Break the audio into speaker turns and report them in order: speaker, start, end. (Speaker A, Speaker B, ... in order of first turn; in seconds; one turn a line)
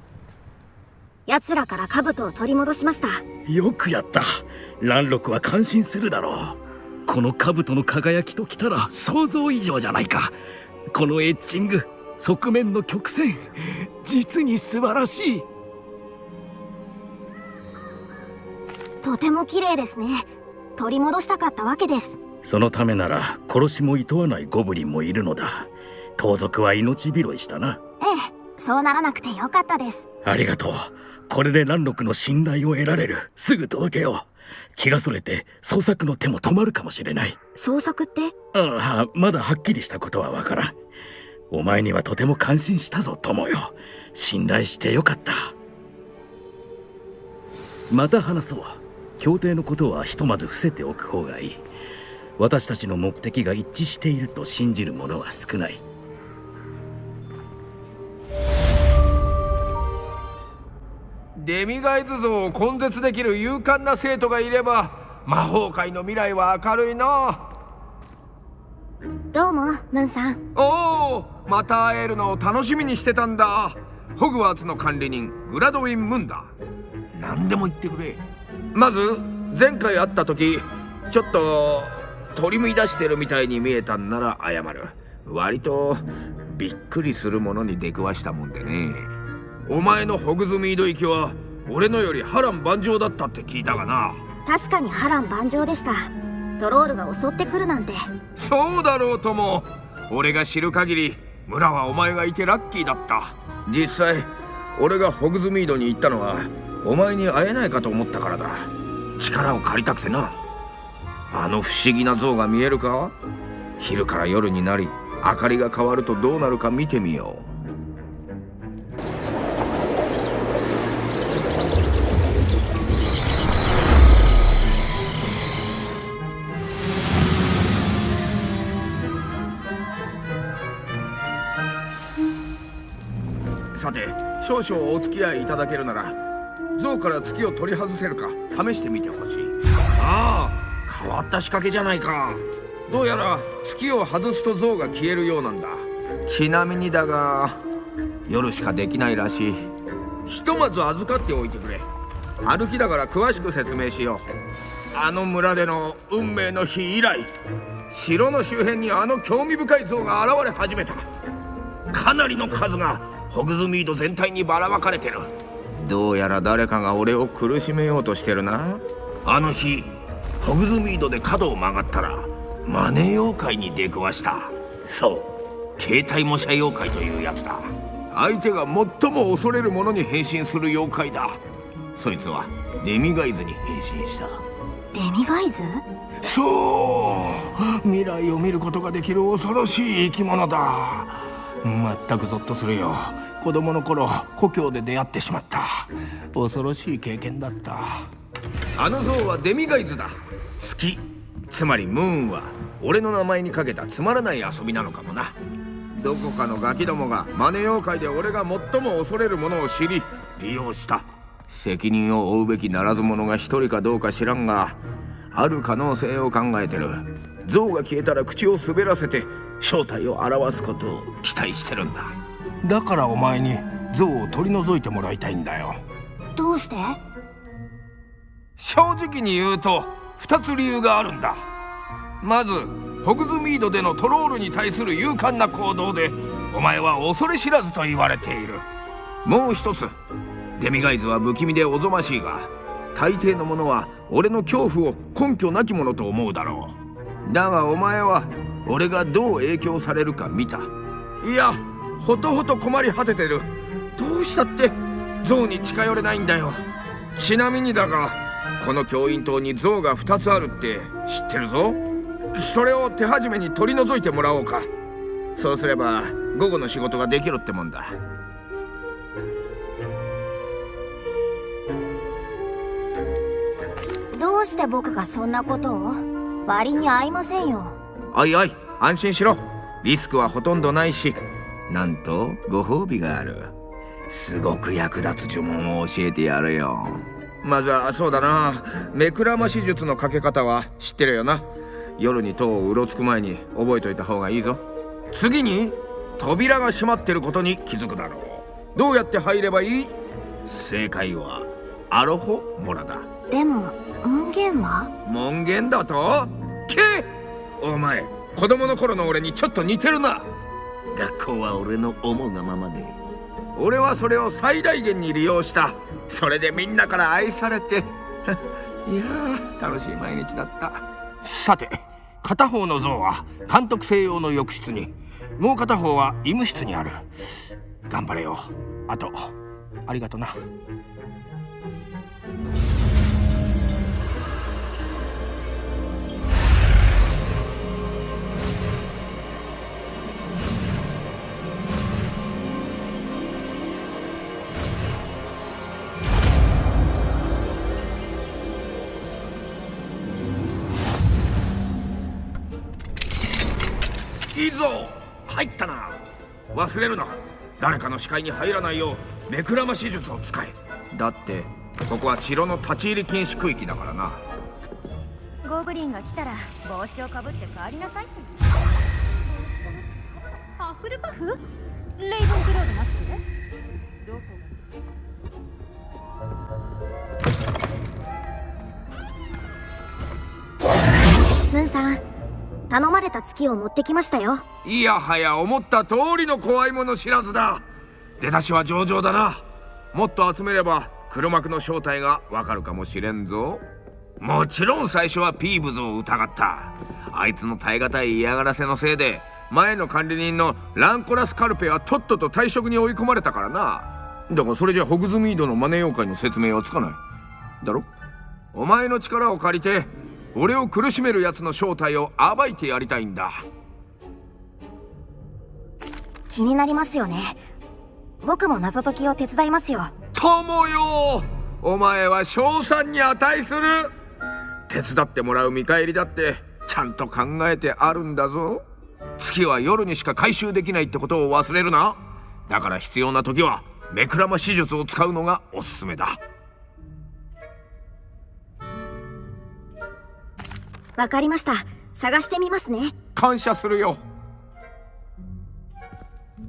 Speaker A: 1.3-3.2
Speaker B: 3.5-10.3
Speaker B: 10.9-15.5
Speaker A: 19.0-22.2
Speaker B: 22.4-27.8
Speaker A: 28.0-30.1
Speaker B: 30.2-37.4
Speaker A: 37.5-38.3
Speaker B: 38.5-40.8
Speaker B: 41.5-45.5
Speaker B: 47.9-51.6
Speaker B: 52.4-55.8
Speaker C: 61.4-67.5
Speaker A: 69.3-70.4
Speaker C: 70.5-76.5
Speaker C: 77.1-78.2
Speaker C: 78.7-89.1
Speaker C: 89.7-94.2
Speaker A: 94.5-98.1
Speaker C: 98.4-110.4
Speaker C: 111.3-113.2
Speaker C: 113.8-117.5
Speaker C: 133.8-136.2
Speaker C: 136.8-147.6
Speaker C: 148.3-149.7
Speaker C: 150.3-151.9
Speaker C: 152.4-154.3
Speaker C: 154.9-157.3
Speaker C: 157.9-161.1
Speaker C: 161.9-181.4
Speaker C: 181.9-184.4
Speaker A: 184.9-185.8
Speaker C: 186.2-198.1
Speaker C: 198.8-205.3
Speaker C: 205.9-214.8
Speaker C: 215.3-225.8
Speaker A: 226.4-227.0
Speaker C: 228.6-231.4
Speaker C: 232.2-238.6
Speaker C: 239.2-239.9
Speaker C: 240.6-250.7
Speaker C: 251.2-256.6
Speaker C: 257.2-261.8
Speaker C: 262.4-264.7
Speaker C: 265.4-268.0
Speaker A: 274.1-277.8
Speaker C: 278.1-281.2
Speaker C: 281.7-283.5
Speaker C: 284.1-291.5
Speaker C: 292.0-303.1
Speaker A: 303.3-304.9
Speaker C: 305.1-310.3
Speaker C: 310.9-313.0
Speaker C: 313.6-318.4
Speaker C: 318.9-327.0
Speaker C: 327.9-329.3
Speaker C: 329.9-330.4
Speaker C: 354.3-356.0
Speaker C: 356.5-364.2
Speaker D: 365.4-368.3
Speaker D: 370.6-371.4
Speaker D: 372.0-373.2
Speaker A: 381.2-382.0
Speaker A: 382.7-384.4
Speaker C: 384.6-387.6
Speaker C: 388.2-393.6
Speaker C: 394.2-407.0
Speaker C: 407.6-407.9
Speaker C: 408.5-413.4
Speaker A: 416.3-417.5
Speaker A: 418.2-419.9
Speaker C: 420.1-423.9
Speaker C: 424.7-428.6
Speaker C: 429.2-436.2
Speaker A: 441.0-443.0
Speaker C: 443.1-444.0